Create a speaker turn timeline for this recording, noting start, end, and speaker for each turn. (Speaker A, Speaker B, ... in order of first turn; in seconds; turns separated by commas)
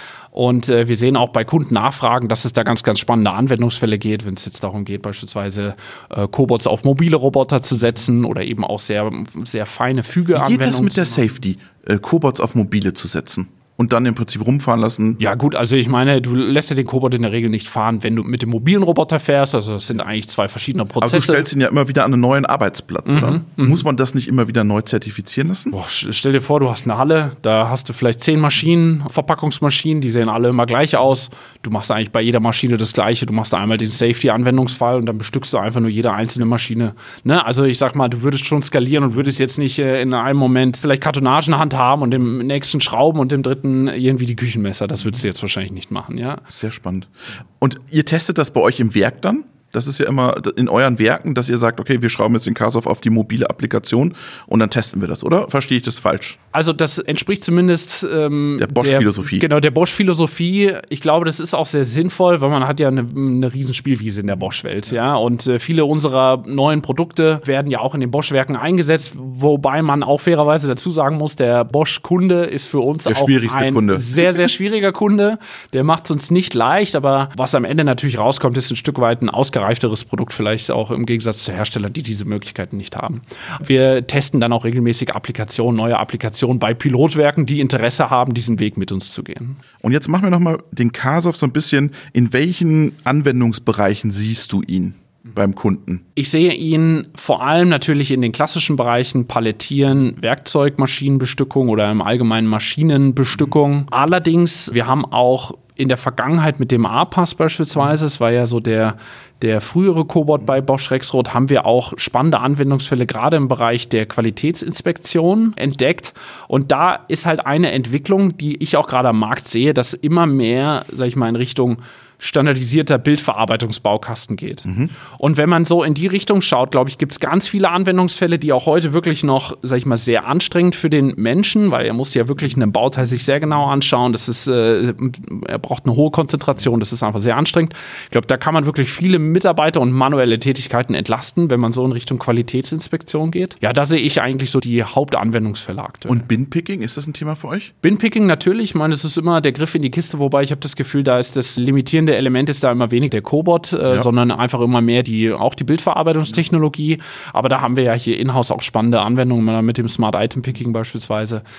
Speaker A: 0.3-11.2, Speaker B: 10.3-15.2, Speaker A: 15.2-21.5, Speaker B: 21.0-25.7, Speaker A: 23.1-23.8, Speaker A: 25.7-46.4, Speaker B: 46.5-56.4, Speaker A: 56.5-89.6, Speaker B: 58.6-59.5, Speaker B: 73.1-74.3, Speaker B: 89.8-96.0, Speaker A: 96.2-146.3, Speaker B: 124.7-124.9, Speaker B: 146.1-147.7, Speaker A: 147.8-161.4